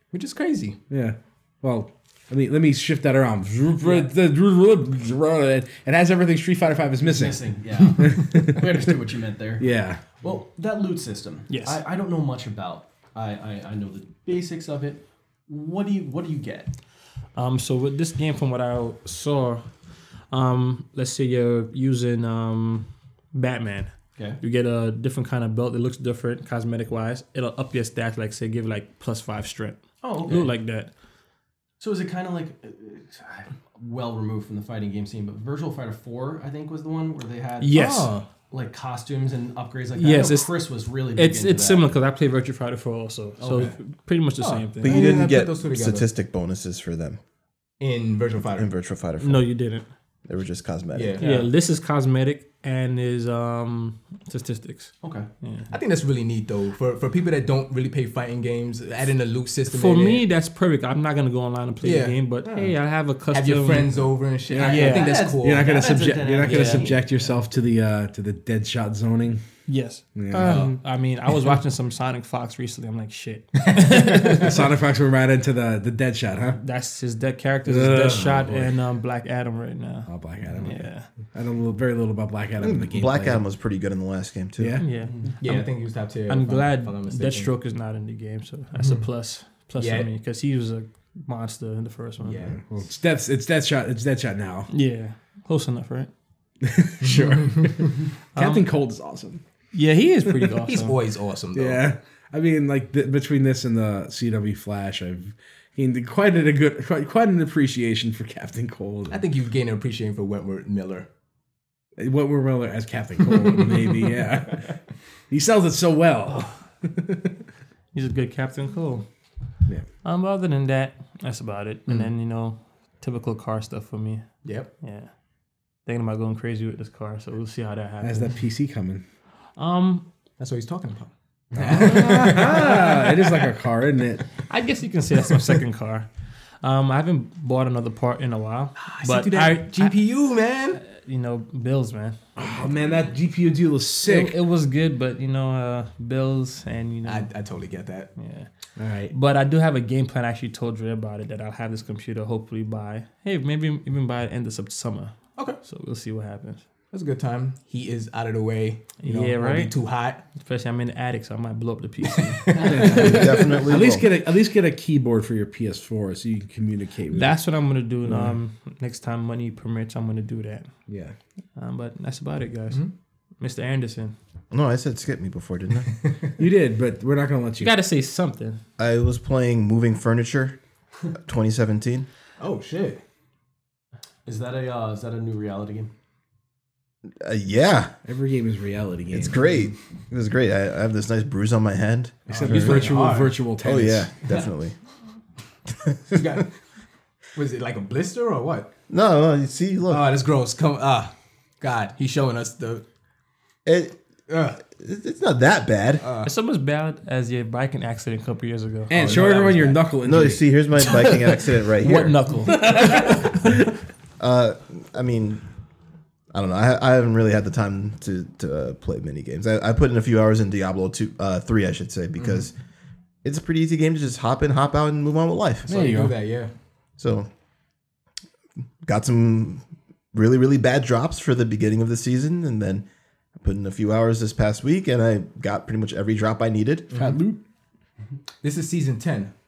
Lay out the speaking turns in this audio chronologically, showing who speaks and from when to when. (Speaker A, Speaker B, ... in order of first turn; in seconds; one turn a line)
Speaker A: 0.1-0.8
Speaker B: 0.9-7.4
Speaker C: 7.0-9.6
Speaker B: 8.0-8.6
Speaker B: 9.6-10.0
Speaker C: 10.2-16.7
Speaker D: 11.5-11.8
Speaker D: 17.3-19.7
Speaker D: 20.3-30.9
Speaker C: 24.1-24.4
Speaker C: 30.0-30.5
Speaker C: 31.8-37.8
Speaker D: 37.6-38.2
Speaker A: 37.7-38.2
Speaker C: 38.5-41.9
Speaker D: 39.9-40.6
Speaker D: 41.1-45.1
Speaker C: 43.4-43.7
Speaker A: 44.4-46.1
Speaker E: 44.8-47.2
Speaker A: 47.8-48.7
Speaker E: 48.5-49.6
Speaker D: 49.2-49.9
Speaker E: 50.2-51.2
Speaker A: 50.9-51.4
Speaker D: 51.2-55.7
Speaker C: 55.0-55.3
Speaker A: 55.7-60.2
Speaker D: 59.7-64.0
Speaker A: 61.8-62.2
Speaker A: 63.3-65.7
Speaker B: 64.5-69.4
Speaker D: 64.6-65.2
Speaker C: 64.6-67.0
Speaker A: 66.4-67.0
Speaker D: 69.7-74.5
Speaker B: 70.1-70.7
Speaker A: 70.3-70.8
Speaker B: 74.2-76.6
Speaker D: 76.5-80.1
Speaker B: 77.6-78.7
Speaker B: 80.1-83.4
Speaker D: 80.6-81.1
Speaker E: 82.6-84.8
Speaker B: 84.6-84.8
Speaker D: 84.8-92.5
Speaker A: 85.3-87.5
Speaker A: 89.8-90.1
Speaker A: 92.2-92.6
Speaker B: 92.7-94.7
Speaker D: 94.7-96.1
Speaker B: 96.6-99.4
Speaker D: 98.3-98.7
Speaker D: 99.7-101.0
Speaker A: 100.6-101.8
Speaker B: 101.5-109.2
Speaker A: 109.1-111.1
Speaker B: 112.0-114.7
Speaker B: 115.3-117.3
Speaker D: 117.9-119.0
Speaker D: 120.0-124.2
Speaker A: 124.4-124.7
Speaker D: 124.8-125.1
Speaker D: 125.8-128.3
Speaker B: 128.0-129.0
Speaker D: 129.6-130.1
Speaker A: 130.4-133.1
Speaker B: 131.6-134.2
Speaker D: 131.6-132.7
Speaker D: 134.5-136.1
Speaker D: 136.6-139.9
Speaker A: 138.8-140.8
Speaker D: 140.8-142.2
Speaker B: 142.4-144.4
Speaker D: 144.0-147.3
Speaker A: 147.0-148.1
Speaker D: 148.2-148.5
Speaker B: 148.8-149.1
Speaker D: 149.1-156.6
Speaker A: 155.3-155.6
Speaker A: 156.9-160.2
Speaker D: 159.0-159.7
Speaker D: 160.3-163.3
Speaker A: 162.1-163.2
Speaker B: 162.6-167.3
Speaker E: 162.9-164.1
Speaker D: 167.1-170.7
Speaker B: 168.0-168.4
Speaker B: 170.9-171.1
Speaker D: 171.6-172.9
Speaker D: 173.4-174.1
Speaker E: 174.5-176.1
Speaker B: 176.4-177.7
Speaker D: 177.6-178.6
Speaker E: 178.8-180.6
Speaker E: 181.1-182.1
Speaker A: 182.4-183.0
Speaker C: 184.2-185.9
Speaker E: 187.2-187.9
Speaker B: 188.0-189.5
Speaker E: 189.1-193.0
Speaker A: 192.3-193.3
Speaker B: 192.3-194.1
Speaker E: 193.6-194.8
Speaker E: 196.1-196.3
Speaker A: 196.1-196.5
Speaker A: 197.3-198.7
Speaker E: 198.9-200.1
Speaker A: 199.9-202.8
Speaker E: 203.6-203.9
Speaker A: 204.3-204.6
Speaker E: 204.7-206.1
Speaker A: 206.0-206.3
Speaker D: 206.2-209.8
Speaker B: 208.9-210.5
Speaker A: 208.9-209.4
Speaker E: 210.0-212.2
Speaker D: 210.9-211.2
Speaker D: 211.8-213.6
Speaker B: 211.8-213.6
Speaker E: 214.2-215.4
Speaker E: 216.3-222.5
Speaker A: 222.2-222.5
Speaker E: 223.2-225.7
Speaker A: 225.7-226.5
Speaker B: 225.7-226.1
Speaker E: 227.0-227.3
Speaker E: 228.8-232.8
Speaker E: 233.4-236.9
Speaker A: 236.9-237.2
Speaker B: 236.9-237.4
Speaker A: 238.4-239.3